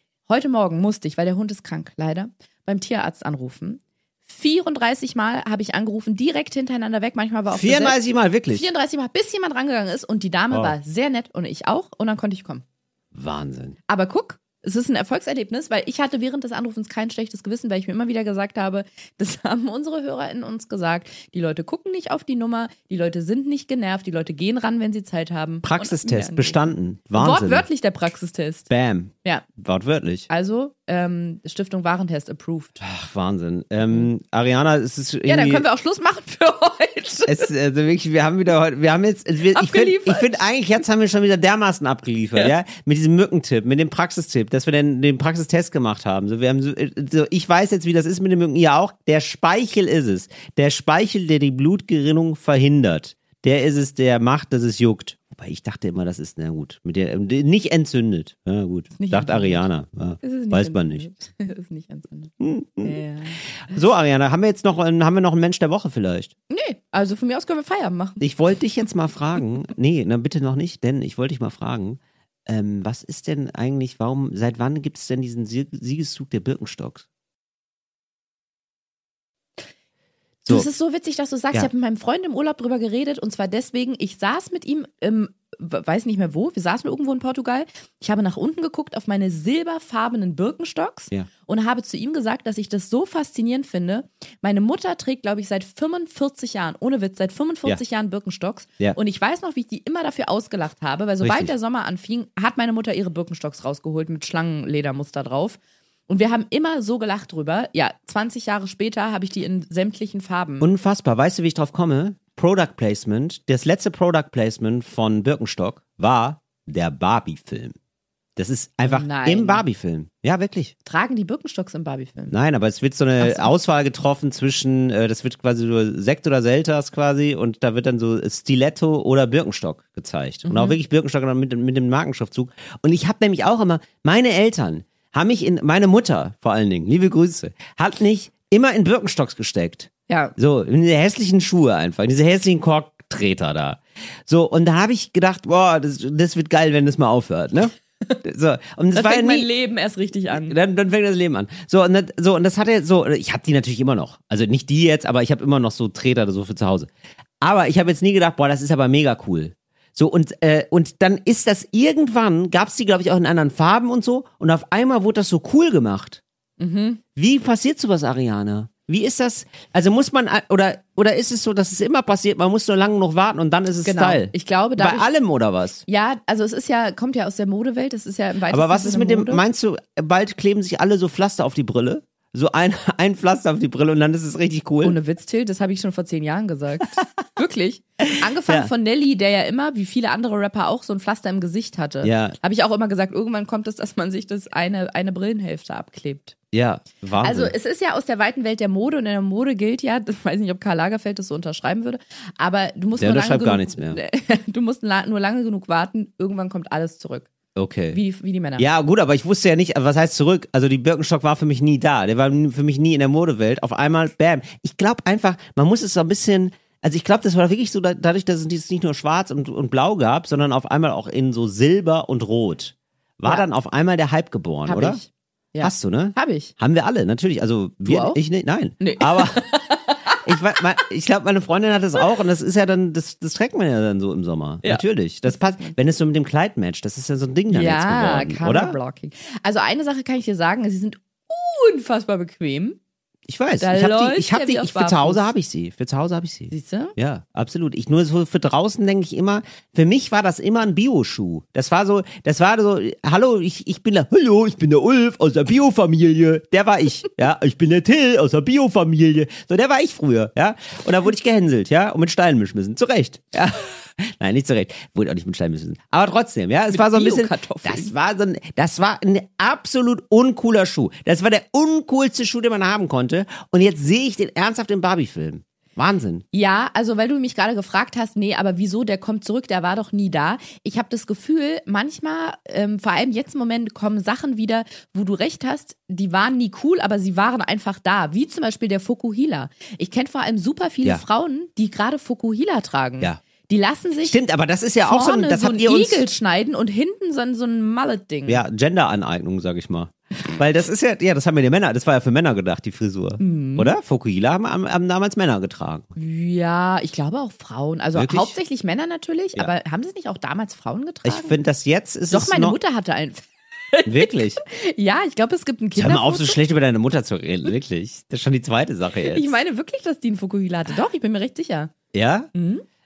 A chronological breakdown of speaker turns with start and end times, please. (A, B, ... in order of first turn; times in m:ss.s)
0:00.3-0:08.0 A
0:07.5-0:08.6 B
0:08.5-0:12.6 A
0:13.1-0:13.8 B
0:13.9-0:28.7 A
0:25.6-0:27.6 B
0:28.7-0:30.3 B
0:30.3-0:32.8 A
0:32.8-0:35.6 B
0:35.3-0:37.5 A
0:37.3-1:01.1 B
0:39.5-0:40.4 A
0:59.0-0:59.6 A
1:00.2-1:02.3 A
1:02.4-1:03.0 B
1:02.8-1:03.4 A
1:03.6-1:06.3 B
1:06.5-1:08.2 A
1:08.2-1:17.1 B
1:20.5-1:50.7 A
1:41.2-1:41.5 B
1:50.6-1:57.8 B
1:58.4-2:00.7 B
1:58.8-1:59.6 A
2:00.9-2:02.3 A
2:02.3-2:29.5 B
2:03.2-2:03.5 A
2:10.4-2:10.8 A
2:20.1-2:20.4 A
2:28.9-2:30.6 A
2:30.3-2:36.9 B
2:37.4-2:46.2 B
2:46.6-2:47.0 A
2:47.2-2:55.8 B
2:53.8-2:55.1 A
2:55.9-2:59.4 A
2:58.5-3:05.0 B
3:04.8-3:16.4 A
3:12.0-3:12.4 B
3:16.5-3:17.5 B
3:17.2-3:27.3 A
3:23.0-3:24.0 B
3:27.6-3:28.0 B
3:27.9-3:28.6 A
3:28.6-3:45.0 B
3:44.6-3:46.5 A
3:45.6-3:49.4 B
3:47.8-3:48.2 A
3:48.8-3:50.2 A
3:50.2-3:58.8 B
3:54.6-3:55.8 A
3:57.5-4:02.8 A
4:03.3-4:36.2 B
4:03.6-4:05.3 A
4:06.5-4:07.0 A
4:26.7-4:27.9 A
4:36.3-4:54.2 A
4:54.1-4:56.1 B
4:54.8-4:58.4 A
4:58.3-5:05.9 B
5:03.2-5:03.7 A
5:06.0-5:11.4 A
5:08.0-5:08.4 B
5:11.0-5:12.6 B
5:12.1-5:16.4 A
5:13.9-5:14.4 B
5:15.8-5:19.4 B
5:19.1-5:21.7 A
5:21.9-5:22.3 B
5:22.3-5:22.6 A